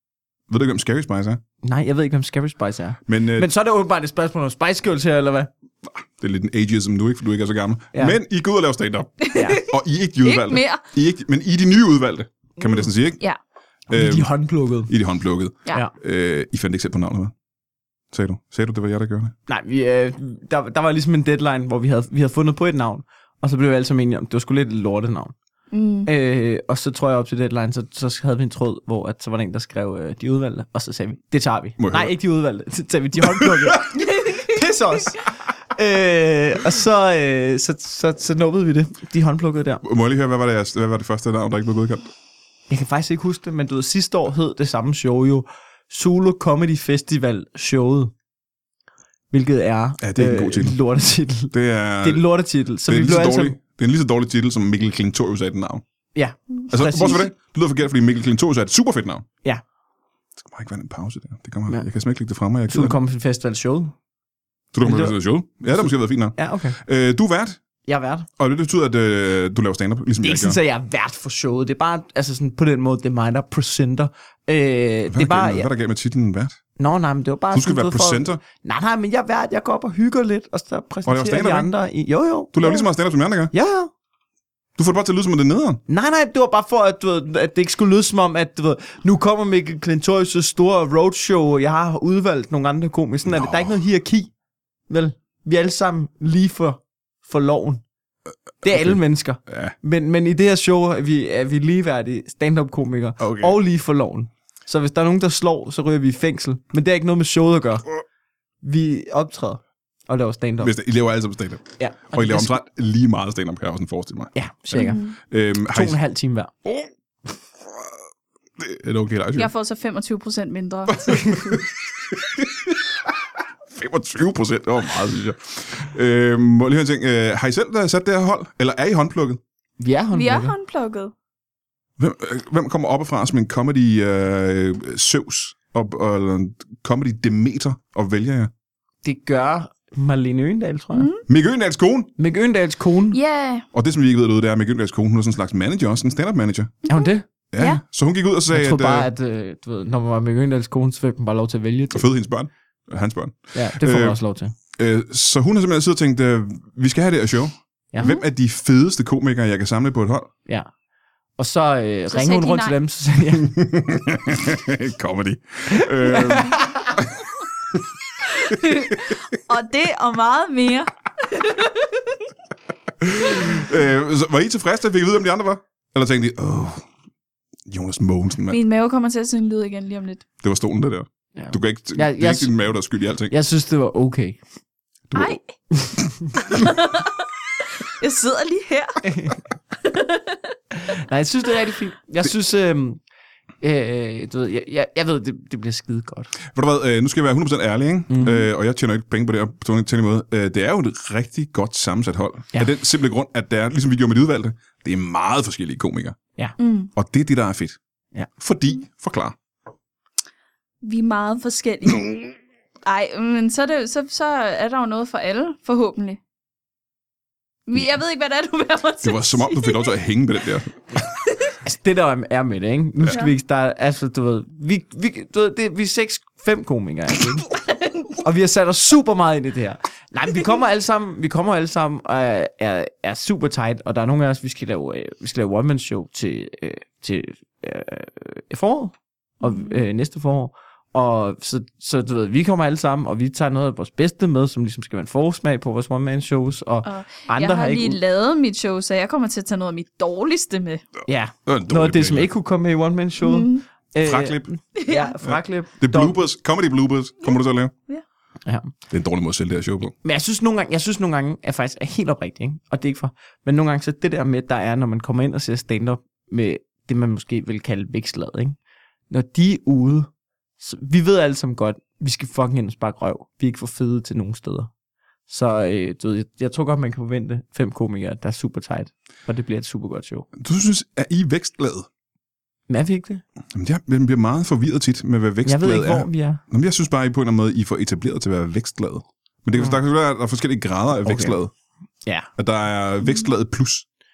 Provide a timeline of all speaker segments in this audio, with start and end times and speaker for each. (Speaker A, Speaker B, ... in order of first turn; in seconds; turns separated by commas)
Speaker A: 0.5-1.4, Speaker B: 1.6-5.5, Speaker A: 3.1-3.5, Speaker A: 5.9-13.2, Speaker C: 9.2-9.7, Speaker B: 9.3-9.6, Speaker C: 10.2-10.8, Speaker B: 12.6-12.9, Speaker B: 13.9-14.9, Speaker A: 13.9-17.3, Speaker A: 18.1-19.4, Speaker B: 19.5-25.3, Speaker C: 25.7-26.1, Speaker B: 26.1-39.8, Speaker A: 31.8-32.1, Speaker A: 33.2-34.0, Speaker C: 34.0-34.4, Speaker A: 39.8-42.1, Speaker B: 42.7-48.1, Speaker B: 49.3-53.6, Speaker A: 50.0-50.8, Speaker A: 51.5-52.3, Speaker A: 52.8-55.8, Speaker B: 56.1-57.3, Speaker A: 56.7-59.3, Speaker A: 60.4-63.0, Speaker B: 62.7-63.9, Speaker A: 64.7-67.6, Speaker B: 64.8-65.2, Speaker B: 65.8-66.8, Speaker B: 67.9-68.3, Speaker A: 68.4-70.6, Speaker B: 70.2-75.7, Speaker A: 75.1-76.6, Speaker B: 76.8-82.9, Speaker A: 77.5-78.4, Speaker A: 81.1-81.7, Speaker A: 82.5-83.5, Speaker B: 83.5-83.9, Speaker A: 84.8-85.8, Speaker B: 85.9-94.3, Speaker A: 93.3-93.8, Speaker B: 94.9-97.8, Speaker A: 98.6-99.8, Speaker B: 98.6-107.9, Speaker A: 103.2-103.6, Speaker B: 108.6-110.7, Speaker A: 110.6-116.0, Speaker B: 111.8-112.6, Speaker B: 114.3-115.0, Speaker C: 114.8-115.2, Speaker B: 115.6-116.6, Speaker A: 118.6-119.5, Speaker C: 119.4-121.6, Speaker A: 120.9-122.9, Speaker A: 123.7-129.4, Speaker B: 129.8-130.6, Speaker C: 130.1-131.1, Speaker A: 132.0-138.5, Speaker B: 139.0-141.1, Speaker C: 140.9-141.2, Speaker A: 141.3-142.1, Speaker B: 142.2-143.2, Speaker C: 143.1-143.7, Speaker A: 143.7-146.8, Speaker C: 146.8-147.8, Speaker B: 146.9-147.3, Speaker A: 147.5-149.1, Speaker B: 148.5-152.1, Speaker A: 151.9-154.2, Speaker B: 153.5-154.5, Speaker A: 154.8-160.3, Speaker B: 157.9-158.2, Speaker B: 161.4-163.6, Speaker C: 162.1-162.8, Speaker A: 163.3-167.8, Speaker B: 165.7-166.9, Speaker C: 168.4-172.2, Speaker A: 168.4-169.1, Speaker A: 173.0-176.8, Speaker A: 177.7-178.6, Speaker C: 178.5-180.3, Speaker A: 180.4-183.3, Speaker B: 181.4-182.6, Speaker B: 183.3-184.4, Speaker A: 185.1-185.4, Speaker C: 185.2-185.5, Speaker B: 185.7-186.1, Speaker C: 186.5-189.1, Speaker B: 189.1-189.4, Speaker C: 189.8-190.5, Speaker B: 190.7-193.0, Speaker B: 193.6-196.3, Speaker A: 196.5-206.2, Speaker B: 198.1-198.5, Speaker C: 206.6-206.9, Speaker A: 206.9-207.8, Speaker A: 208.4-209.3, Speaker C: 210.8-216.2, Speaker C: 217.7-219.9, Speaker A: 219.0-220.8, Speaker B: 221.6-227.5, Speaker B: 228.2-248.0, Speaker C: 239.4-239.8, Speaker C: 246.8-250.9, Speaker B: 251.1-256.2, Speaker A: 251.5-252.3, Speaker C: 253.2-253.6, Speaker A: 254.0-254.5, Speaker C: 254.8-255.2, Speaker A: 255.2-257.7, Speaker B: 258.4-258.7, Speaker A: 258.9-259.9, Speaker B: 260.0-268.6, Speaker B: 269.1-274.7, Speaker B: 275.3-280.3, Speaker A: 280.4-281.9, Speaker B: 282.7-283.2, Speaker A: 283.5-291.5, Speaker B: 285.4-286.4, Speaker B: 289.5-289.8, Speaker B: 291.0-291.4, Speaker B: 292.0-292.3, Speaker A: 292.4-293.9